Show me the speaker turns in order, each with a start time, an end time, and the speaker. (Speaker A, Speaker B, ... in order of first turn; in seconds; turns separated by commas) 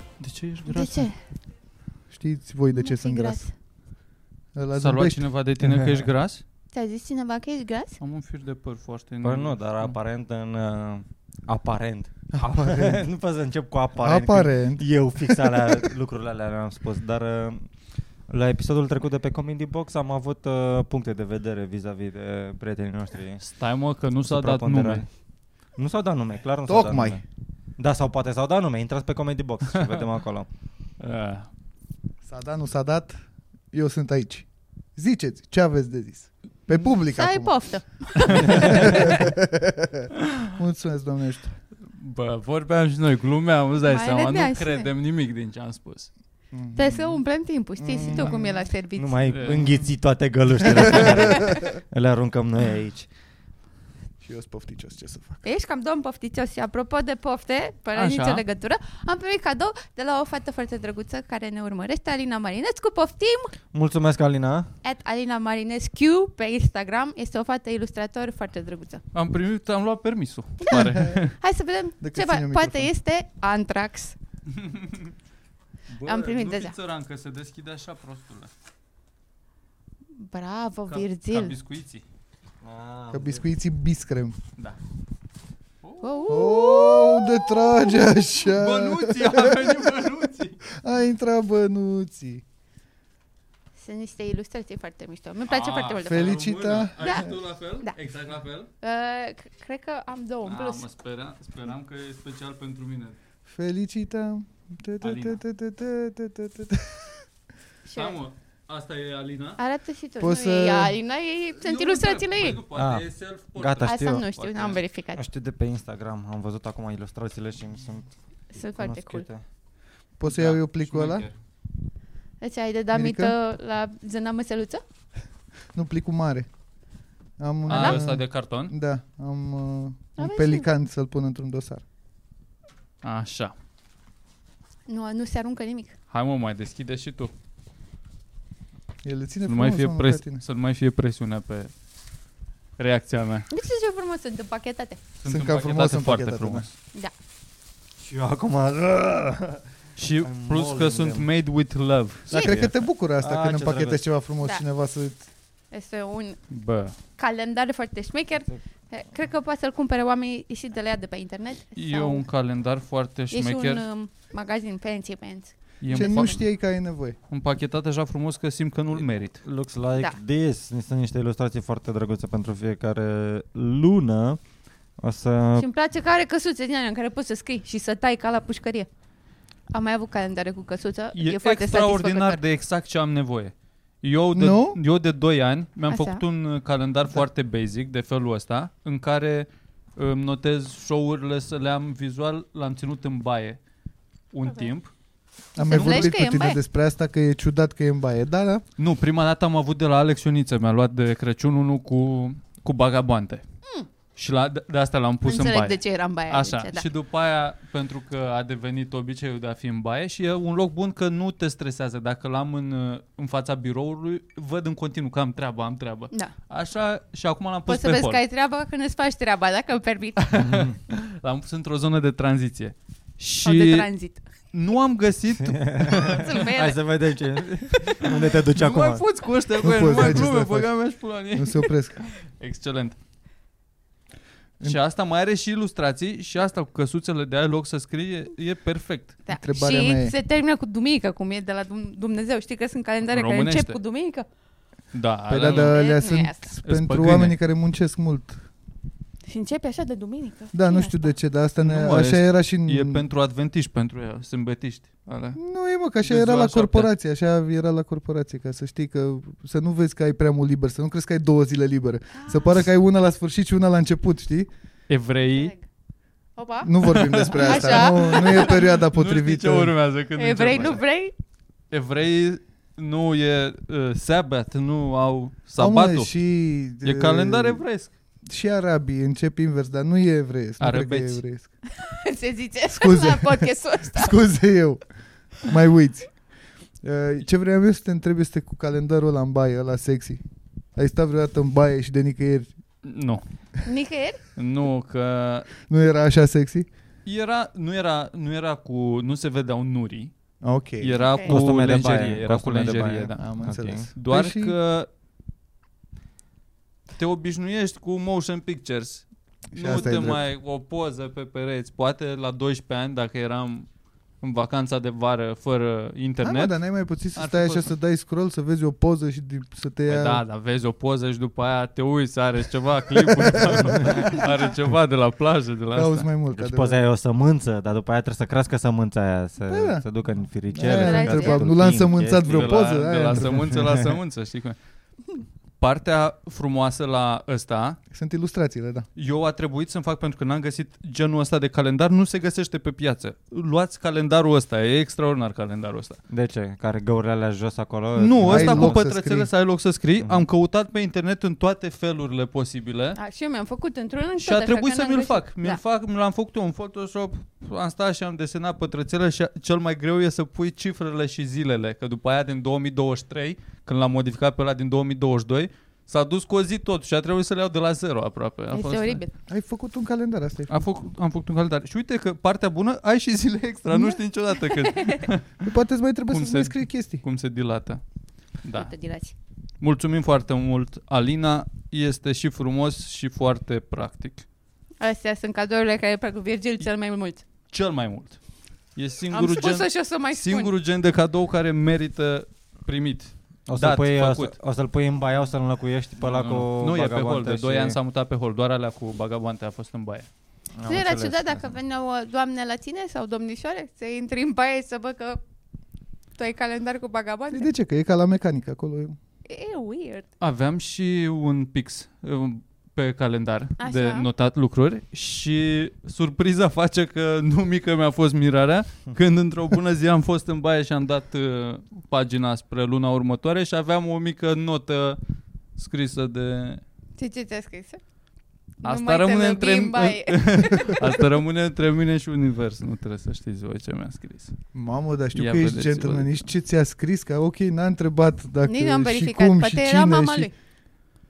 Speaker A: 0.2-1.1, Speaker B: 0.7-1.1, Speaker C: 2.1-3.4, Speaker B: 2.7-3.5, Speaker C: 4.5-6.1, Speaker A: 4.7-6.4, Speaker B: 6.7-8.0, Speaker A: 8.0-9.9, Speaker D: 9.2-17.7, Speaker C: 12.3-13.0, Speaker C: 14.0-14.8, Speaker D: 18.3-23.4, Speaker A: 23.4-25.0, Speaker D: 24.2-25.1, Speaker D: 25.8-27.2, Speaker C: 26.7-27.2, Speaker D: 27.8-30.5, Speaker A: 31.0-31.5, Speaker C: 32.2-33.1, Speaker C: 33.7-37.5, Speaker B: 36.8-39.1, Speaker A: 38.3-39.1, Speaker C: 38.5-41.5, Speaker A: 41.9-46.1, Speaker B: 43.9-44.9, Speaker C: 46.5-47.2, Speaker B: 46.7-49.5, Speaker C: 47.8-48.6, Speaker D: 49.0-53.1, Speaker A: 49.3-49.9, Speaker A: 50.9-51.2, Speaker B: 51.2-51.6, Speaker C: 54.2-55.4, Speaker B: 55.4-63.5, Speaker A: 57.9-58.4, Speaker D: 63.7-64.7, Speaker B: 64.8-69.0, Speaker A: 69.1-71.3, Speaker C: 70.7-71.2, Speaker B: 71.4-74.2, Speaker C: 72.0-72.9, Speaker A: 74.5-75.1, Speaker A: 75.9-78.5, Speaker B: 76.0-76.7, Speaker B: 80.2-81.5, Speaker A: 80.9-82.0, Speaker D: 82.6-83.4, Speaker C: 83.1-84.3, Speaker A: 85.8-86.3, Speaker B: 86.0-88.0, Speaker C: 86.3-90.1, Speaker A: 88.4-90.6, Speaker C: 90.8-92.4, Speaker B: 93.8-96.4, Speaker A: 95.5-98.7, Speaker C: 96.0-97.0, Speaker B: 97.0-97.3, Speaker B: 98.8-100.8, Speaker A: 100.5-103.2, Speaker C: 103.5-107.0, Speaker A: 105.0-105.4, Speaker B: 107.8-108.2, Speaker A: 108.0-109.6, Speaker B: 109.6-112.6, Speaker C: 110.2-111.0, Speaker A: 111.6-114.8, Speaker D: 112.7-114.3, Speaker B: 113.8-115.2, Speaker D: 115.1-118.1, Speaker B: 118.5-119.2, Speaker D: 118.8-119.4, Speaker C: 120.2-121.3, Speaker A: 120.2-121.3, Speaker B: 122.4-124.8, Speaker C: 122.9-123.3, Speaker C: 125.7-126.5, Speaker C: 127.4-131.8, Speaker A: 127.7-128.7, Speaker B: 127.7-128.0, Speaker B: 130.2-130.7, Speaker A: 133.0-133.5, Speaker B: 134.9-135.9, Speaker A: 136.1-137.3, Speaker C: 139.0-140.4, Speaker A: 139.4-141.7, Speaker A: 142.8-143.5, Speaker B: 143.5-145.0, Speaker A: 145.2-146.7, Speaker C: 145.2-146.7, Speaker D: 148.0-149.6, Speaker A: 149.9-152.7, Speaker D: 150.2-151.3, Speaker C: 152.3-155.3, Speaker D: 152.3-154.0, Speaker B: 155.7-156.4, Speaker A: 156.5-156.9, Speaker B: 157.2-162.2, Speaker A: 161.8-163.8, Speaker B: 163.3-166.4, Speaker A: 165.8-166.5, Speaker C: 165.9-167.2, Speaker A: 167.3-169.4, Speaker D: 168.9-174.4, Speaker D: 175.0-175.7, Speaker B: 175.6-178.9, Speaker B: 179.7-182.4, Speaker A: 181.1-193.6, Speaker C: 184.3-184.8, Speaker B: 185.9-186.2, Speaker A: 194.3-194.9, Speaker C: 195.5-198.6, Speaker B: 195.6-196.6, Speaker A: 195.7-196.1, Speaker A: 198.8-203.4, Speaker A: 204.2-218.2, Speaker B: 205.2-206.9, Speaker B: 217.7-220.4, Speaker A: 220.2-223.9, Speaker D: 220.3-220.8, Speaker B: 223.4-224.2, Speaker A: 224.5-226.4, Speaker D: 225.3-229.0, Speaker B: 226.1-226.8, Speaker A: 228.5-233.0, Speaker C: 229.6-230.7, Speaker C: 231.3-232.0, Speaker A: 234.6-239.2, Speaker B: 239.2-244.2, Speaker C: 239.3-240.1, Speaker A: 243.1-243.8, Speaker A: 244.9-245.8, Speaker C: 245.3-248.4, Speaker B: 245.5-246.5, Speaker A: 246.6-247.4, Speaker B: 249.3-251.1, Speaker C: 250.5-253.0, Speaker A: 251.6-255.4, Speaker C: 255.3-264.5, Speaker A: 256.0-256.9, Speaker B: 262.1-262.5, Speaker A: 264.9-265.5, Speaker B: 265.3-265.6, Speaker B: 266.4-266.7, Speaker C: 266.6-269.7, Speaker A: 266.9-270.8, Speaker B: 267.3-268.6, Speaker B: 270.2-271.1, Speaker A: 271.7-276.1, Speaker C: 275.6-277.6, Speaker A: 276.8-277.9, Speaker C: 278.3-281.5, Speaker A: 280.6-281.2, Speaker B: 281.8-284.1, Speaker C: 282.8-284.8, Speaker C: 285.3-286.1, Speaker C: 286.8-290.2, Speaker C: 290.8-292.5, Speaker A: 292.8-293.2, Speaker B: 293.6-294.2, Speaker A: 294.4-295.5, Speaker C: 295.7-296.7, Speaker A: 297.1-300.1, Speaker C: 300.4-301.0, Speaker A: 300.8-304.9, Speaker B: 301.1-301.4, Speaker D: 301.3-303.9, Speaker C: 303.1-304.5, Speaker A: 306.9-313.7, Speaker C: 309.5-310.2, Speaker A: 314.2-316.6, Speaker C: 316.2-320.2, Speaker A: 317.1-317.7, Speaker A: 319.9-326.1, Speaker C: 323.2-324.2, Speaker C: 325.7-326.8, Speaker D: 326.3-332.6, Speaker C: 329.5-329.8, Speaker C: 330.5-333.6, Speaker B: 330.6-331.5, Speaker A: 332.2-334.6, Speaker D: 333.4-333.8, Speaker A: 335.6-337.8, Speaker C: 337.9-338.9, Speaker A: 338.9-346.0, Speaker D: 346.1-348.8, Speaker A: 347.9-353.0, Speaker C: 348.2-349.3, Speaker D: 350.0-350.2, Speaker B: 352.9-355.6, Speaker A: 354.2-369.0, Speaker B: 368.5-369.1, Speaker C: 369.3-370.5, Speaker A: 370.5-375.3, Speaker C: 373.7-374.0, Speaker B: 374.4-375.1, Speaker C: 375.4-377.0, Speaker A: 376.1-377.8, Speaker A: 378.4-378.7, Speaker B: 378.5-379.1, Speaker A: 379.6-384.2, Speaker B: 384.8-387.2, Speaker A: 387.5-388.2, Speaker A: 388.8-394.4, Speaker B: 389.1-390.5, Speaker D: 393.5-397.8, Speaker A: 396.0-400.1, Speaker D: 400.6-401.5, Speaker B: 400.6-405.2, Speaker B: 406.2-407.5, Speaker C: 407.3-409.0, Speaker B: 409.3-410.1, Speaker A: 410.2-425.0, Speaker B: 413.6-414.1, Speaker A: 425.6-426.6, Speaker B: 427.0-427.8, Speaker B: 428.6-431.0, Speaker A: 428.6-434.3, Speaker C: 434.5-440.3, Speaker A: 435.1-436.2, Speaker B: 438.4-440.3